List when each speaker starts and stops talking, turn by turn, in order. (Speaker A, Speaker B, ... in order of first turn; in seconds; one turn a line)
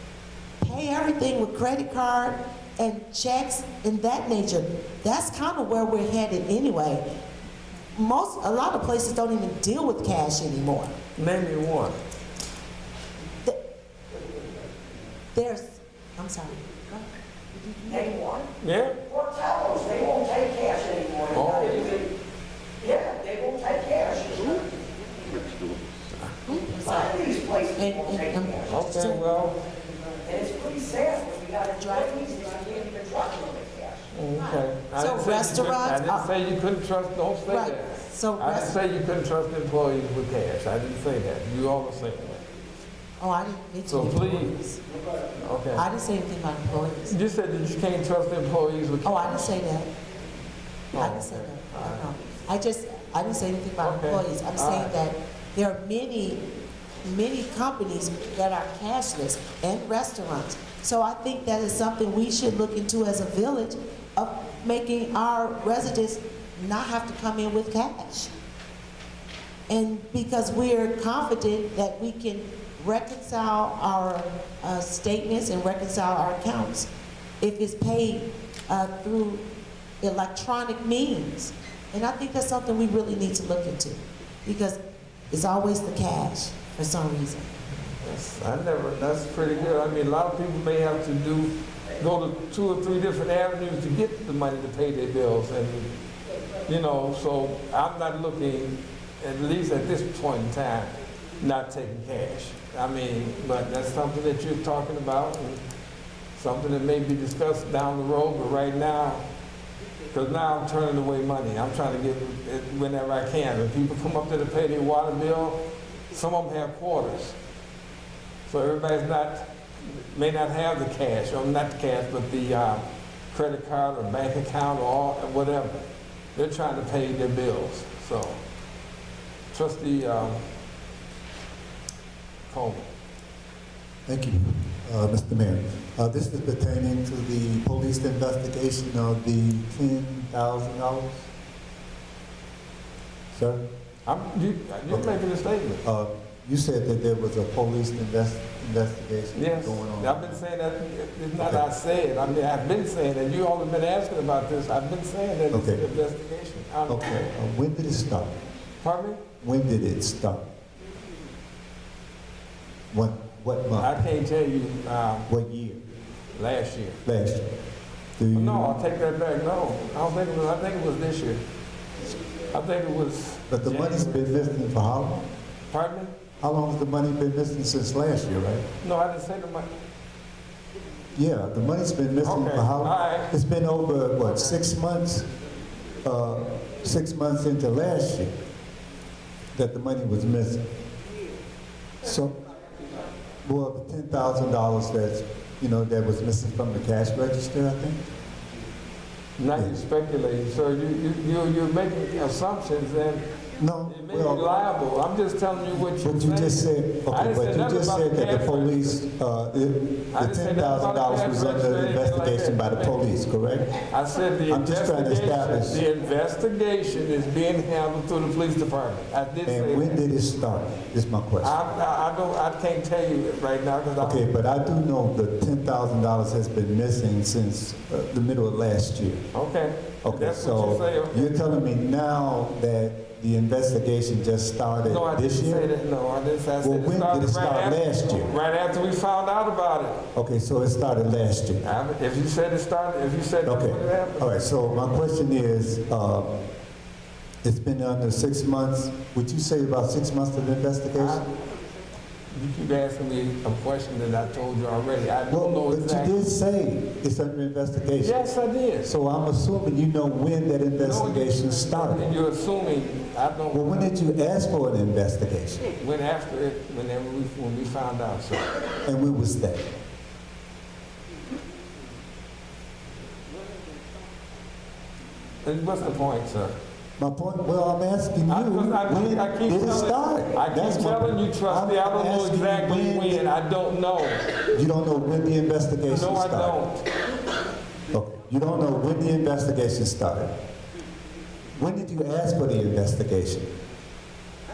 Speaker A: 0.6-7.0
Speaker A: 8.0-10.9
Speaker B: 11.2-12.0
Speaker A: 13.3-13.6
Speaker A: 15.3-18.2
Speaker C: 17.9-18.5
Speaker B: 18.6-19.0
Speaker C: 19.1-22.1
Speaker B: 21.3-22.0
Speaker C: 22.8-24.9
Speaker A: 26.5-29.2
Speaker C: 26.9-28.7
Speaker B: 28.7-29.6
Speaker C: 30.2-34.1
Speaker A: 31.8-32.3
Speaker B: 34.1-42.4
Speaker A: 34.3-36.3
Speaker A: 37.5-38.8
Speaker A: 43.2-44.8
Speaker B: 43.9-44.5
Speaker B: 45.4-45.9
Speaker A: 45.8-47.1
Speaker B: 47.1-49.5
Speaker A: 49.0-49.9
Speaker B: 50.9-52.1
Speaker A: 51.0-56.4
Speaker B: 53.8-54.9
Speaker A: 57.0-68.3
Speaker A: 69.7-76.9
Speaker A: 77.4-79.4
Speaker A: 80.0-84.8
Speaker A: 85.3-87.5
Speaker B: 88.0-95.9
Speaker B: 96.7-105.6
Speaker B: 106.3-109.2
Speaker B: 110.1-117.4
Speaker B: 118.5-125.8
Speaker B: 126.4-128.4
Speaker B: 129.5-130.4
Speaker B: 132.5-132.9
Speaker D: 134.1-141.3
Speaker D: 143.3-143.6
Speaker B: 144.1-145.8
Speaker D: 144.9-145.2
Speaker D: 145.8-150.4
Speaker B: 149.3-157.2
Speaker D: 151.4-151.7
Speaker D: 155.5-155.8
Speaker D: 156.9-158.3
Speaker B: 158.8-159.2
Speaker D: 159.4-160.4
Speaker D: 162.9-164.0
Speaker B: 163.8-165.3
Speaker D: 165.3-165.8
Speaker B: 166.3-167.0
Speaker D: 167.1-167.5
Speaker D: 168.2-168.8
Speaker B: 168.3-171.4
Speaker B: 172.5-174.5
Speaker D: 173.5-175.3
Speaker B: 175.7-176.1
Speaker D: 176.4-178.6
Speaker B: 178.8-179.7
Speaker D: 181.2-185.3
Speaker B: 182.2-183.3
Speaker D: 186.0-188.4
Speaker D: 189.6-190.6
Speaker D: 192.0-192.3
Speaker D: 193.4-198.0
Speaker B: 199.4-203.3
Speaker D: 199.6-199.8
Speaker D: 203.6-204.5
Speaker B: 203.9-209.0
Speaker D: 205.8-213.8
Speaker B: 210.1-213.0
Speaker B: 213.9-220.0
Speaker D: 214.5-215.8
Speaker D: 219.5-221.6
Speaker B: 221.4-224.3
Speaker D: 224.0-229.2
Speaker B: 229.3-231.4
Speaker D: 230.0-235.7
Speaker B: 234.8-240.1
Speaker D: 236.6-238.3
Speaker D: 240.2-241.7
Speaker B: 241.6-244.6
Speaker D: 243.4-246.4
Speaker D: 247.4-251.2
Speaker B: 250.9-251.3
Speaker B: 252.3-256.2
Speaker D: 255.3-258.2
Speaker B: 258.0-258.9
Speaker D: 258.8-262.1
Speaker B: 260.8-263.9
Speaker D: 263.5-265.7
Speaker B: 265.8-268.6
Speaker D: 268.9-269.6
Speaker B: 275.4-276.6
Speaker D: 277.0-283.3
Speaker B: 278.3-284.3
Speaker D: 284.5-286.6
Speaker B: 285.9-286.9
Speaker D: 287.9-290.3
Speaker D: 291.6-293.5